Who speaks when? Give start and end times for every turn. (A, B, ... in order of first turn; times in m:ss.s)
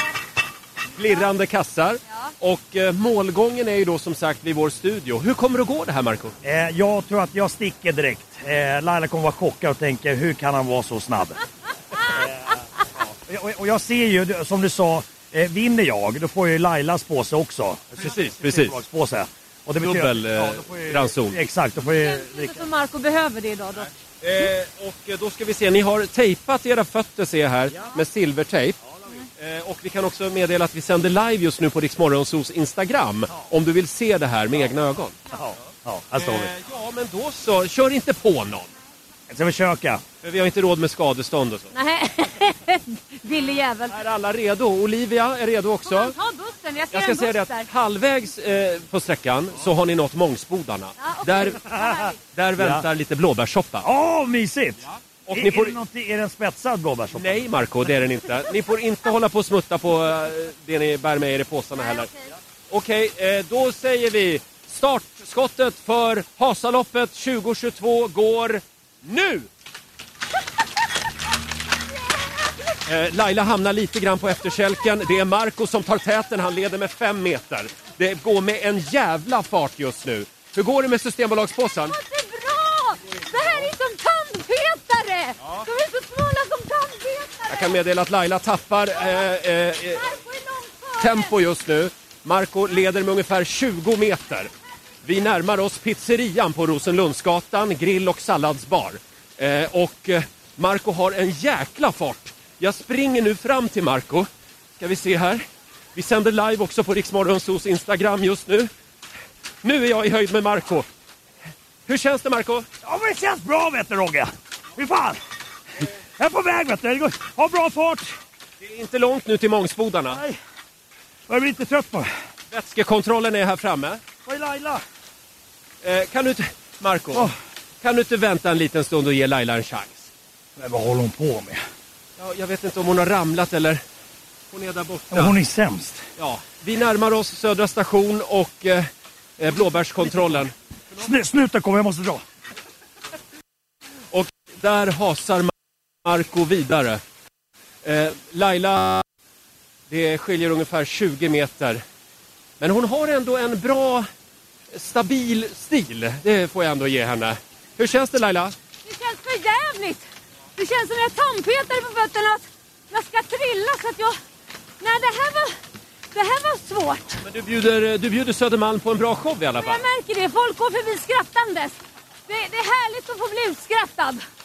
0:01.0-0:06.4 A
0:06.4-0:11.4 B
0:12.1-0:22.7 B
0:18.0-0:18.8 A
0:19.8-0:21.4 A
0:21.8-0:23.9 C
0:23.8-0:28.8 A
0:29.4-0:35.2 A
0:35.3-0:36.5 B
0:36.2-0:38.7 A
0:39.3-0:40.0 B
0:40.2-0:41.7 A
0:41.7-0:44.0 C
0:43.9-0:46.2 A
0:45.8-0:47.7 C
0:46.9-0:51.6 A
0:51.0-0:52.2 C
0:52.3-0:53.9 A
0:52.6-0:52.8 B
0:53.8-0:57.5 B
0:55.3-0:55.8 A
0:57.1-1:02.1 A
1:02.7-1:09.5 A
1:12.9-1:22.0 A
1:21.9-1:27.7 C
1:27.5-1:30.1 A
1:30.0-1:31.2 C
1:31.0-1:34.5 A
1:35.0-1:48.7 A
1:49.6-1:50.9 A
1:51.9-1:52.7 A
1:52.8-1:55.2 B
1:56.2-1:58.1 B
1:58.6-2:00.2 A
2:00.1-2:00.4 B
2:01.3-2:02.1 B
2:02.5-2:04.0 A
2:04.3-2:04.8 B
2:05.8-2:10.1 A
2:10.6-2:11.6 B
2:12.2-2:13.8 A
2:14.5-2:15.4 A
2:15.1-2:16.0 B
2:16.2-2:20.5 A
2:21.0-2:22.2 B
2:24.1-2:25.5 A
2:26.0-2:27.0 A
2:27.8-2:29.0 A
2:29.9-2:31.8 A
2:32.6-2:34.1 A
2:34.7-2:38.6 A
2:38.9-2:40.0 C
2:40.6-2:44.2 C
2:44.8-2:45.6 C
2:46.1-2:47.2 C
2:47.2-2:49.8 A
2:49.6-2:51.8 C
2:52.3-2:54.2 C